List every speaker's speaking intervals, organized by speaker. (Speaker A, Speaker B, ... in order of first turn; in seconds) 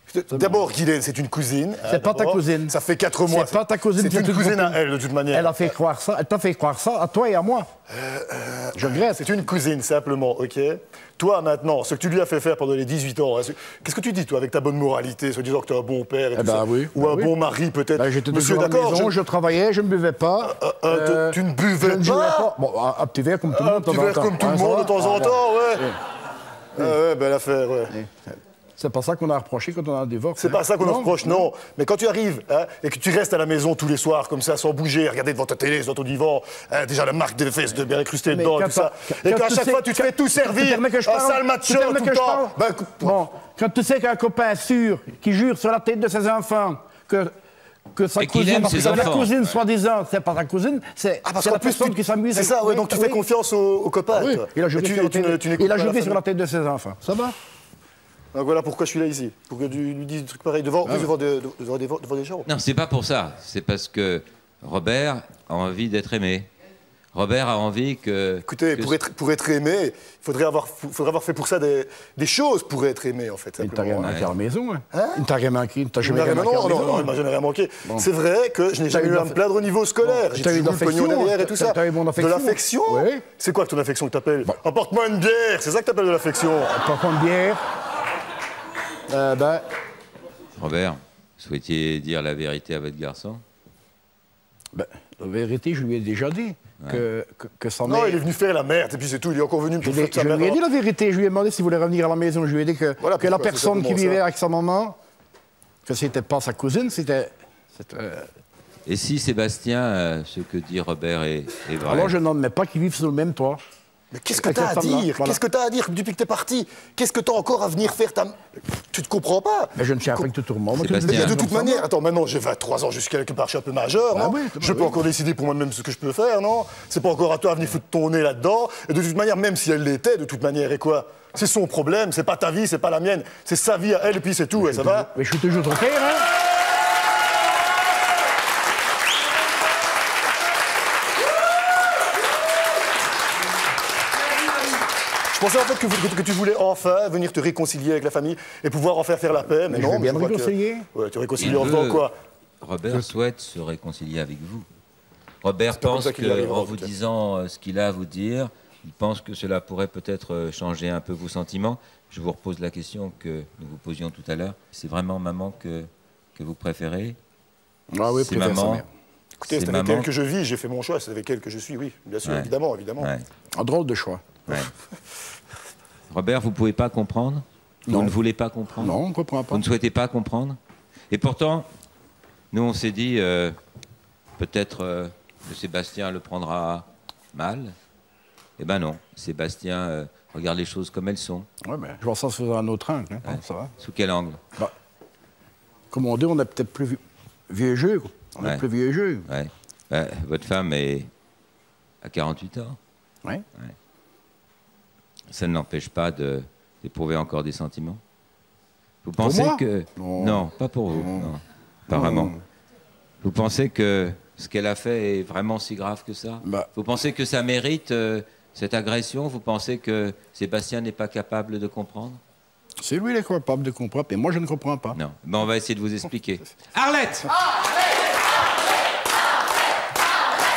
Speaker A: 0.1-5.7, 7.9-19.2, 20.5-22.5, 23.5-25.9, 26.8-28.0, 30.4-43.2, 48.7-49.2, 51.2-56.2, 58.3-62.5, 68.5-74.2, 74.9-75.2, 76.0-86.7, 97.8-100.6, 103.0-104.2, 114.1-120.3, 121.0-135.1, 145.3-152.1, 155.8-156.9, 169.4-173.1
Speaker B: 0.3-0.6, 1.9-7.7, 8.8-9.2, 16.4-17.3, 17.9-26.0, 28.8-31.5, 38.3-47.3, 48.0-53.2, 54.1-57.3, 60.9-61.1, 73.6-77.1, 78.9-79.4, 80.0-83.3, 86.7-87.6, 89.1-89.7, 94.7-98.2, 99.8-105.0, 105.8-108.3, 111.8-113.6, 114.3-115.4, 119.8-121.9, 124.1-125.0, 134.6-136.2, 149.7-150.9, 167.9-168.9, 173.5-174.4, 177.9-178.2, 178.8-179.6, 191.6-193.7, 195.9-199.3, 209.2-211.3, 211.9-212.4, 216.4-216.7, 222.8-225.0
Speaker C: 48.2-49.6, 62.5-66.5, 67.1-69.0, 74.0-74.3, 90.6-93.4, 108.9-112.2, 120.7-121.4, 151.4-152.1, 152.6-154.7, 155.4-167.2, 168.1-168.8, 169.5-170.1, 172.2-173.3, 176.1-178.9, 179.5-180.6, 181.1-181.7, 182.5-183.6, 184.4-187.8, 188.6-191.5, 193.2-194.4, 199.3-201.1, 202.0-202.8, 205.3-208.0, 209.0-212.4, 213.2-222.2, 224.9-227.3